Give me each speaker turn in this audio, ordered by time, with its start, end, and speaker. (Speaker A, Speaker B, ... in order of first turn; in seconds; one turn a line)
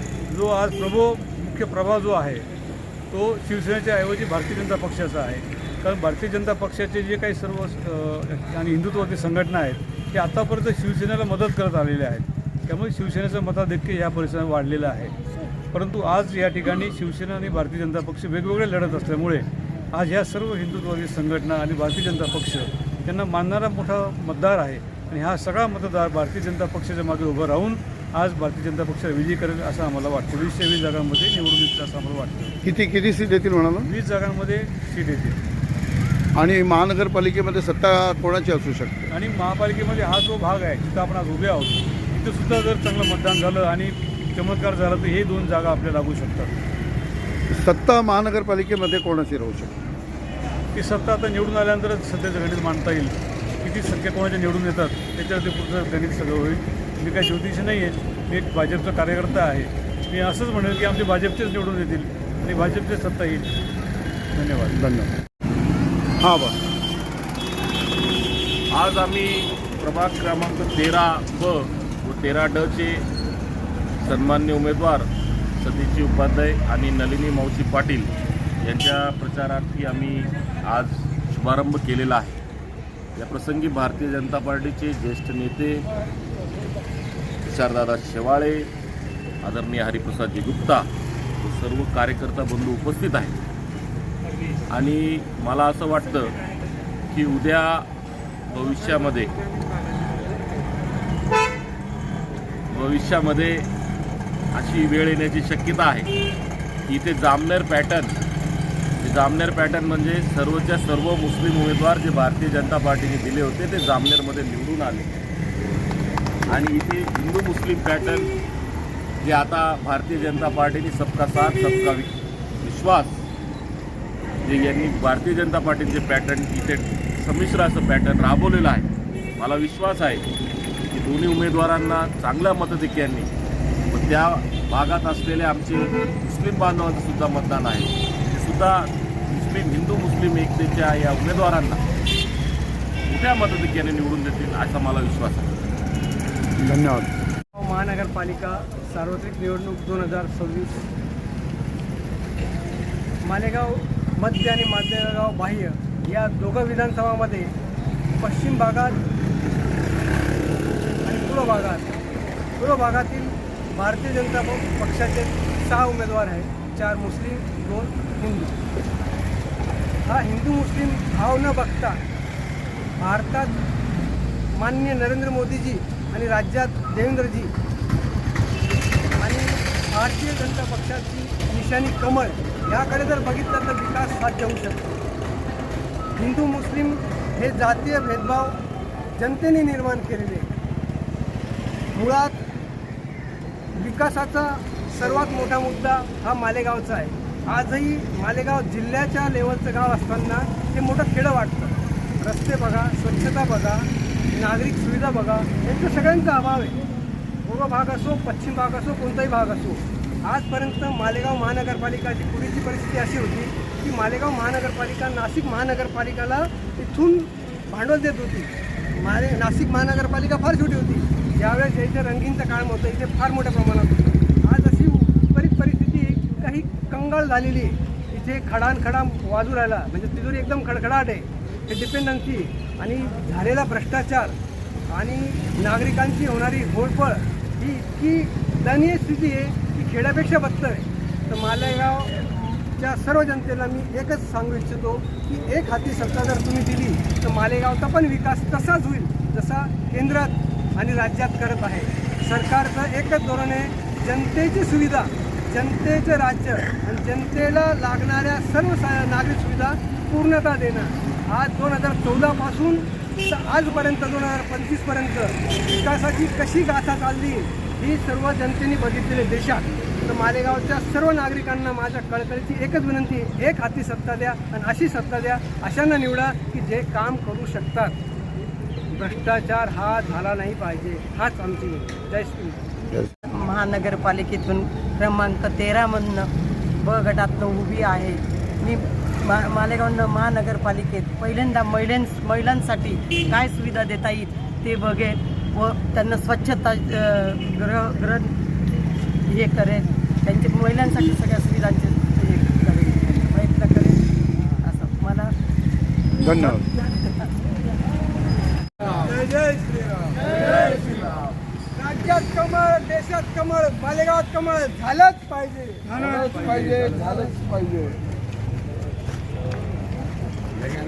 Speaker A: 0.2-2.5
Speaker A: 3.1-15.1
Speaker A: 15.7-32.6
Speaker B: 32.6-33.9
Speaker A: 33.8-35.4
Speaker B: 36.3-39.1
Speaker A: 39.1-46.5
Speaker B: 47.5-49.7
Speaker A: 50.7-63.5
Speaker A: 64.3-64.8
Speaker B: 64.7-65.1
Speaker B: 66.2-66.5
Speaker C: 68.7-73.0
Speaker C: 74.0-78.1
Speaker C: 78.6-82.3
Speaker C: 83.2-85.8
Speaker C: 87.4-88.7
Speaker C: 89.4-90.9
Speaker C: 91.4-93.3
Speaker C: 94.7-96.3
Speaker C: 97.1-97.8
Speaker C: 98.5-99.3
Speaker C: 102.7-103.7
Speaker C: 104.5-106.1
Speaker C: 106.9-108.1
Speaker C: 109.0-115.1
Speaker C: 116.5-118.3
Speaker C: 119.2-123.2
Speaker C: 124.4-130.2
Speaker C: 130.9-133.3
Speaker C: 133.9-141.8
Speaker C: 143.1-145.5
Speaker B: 146.6-147.1
Speaker D: 147.5-150.9
Speaker D: 153.2-157.5
Speaker D: 158.2-159.0
Speaker D: 161.0-161.9
Speaker D: 162.6-168.6
Speaker D: 170.1-172.0
Speaker D: 173.0-173.5
Speaker D: 174.5-177.5
Speaker D: 179.2-184.9
Speaker D: 186.2-188.6
Speaker D: 189.2-190.5
Speaker D: 191.9-192.3
Speaker D: 193.7-206.8
Speaker D: 207.4-234.3
Speaker D: 234.9-278.0
Speaker D: 278.9-282.6
Speaker E: 283.2-298.4
Speaker E: 299.3-305.3
Speaker B: 306.2-306.7
Speaker D: 309.0-311.1
Speaker D: 311.7-317.3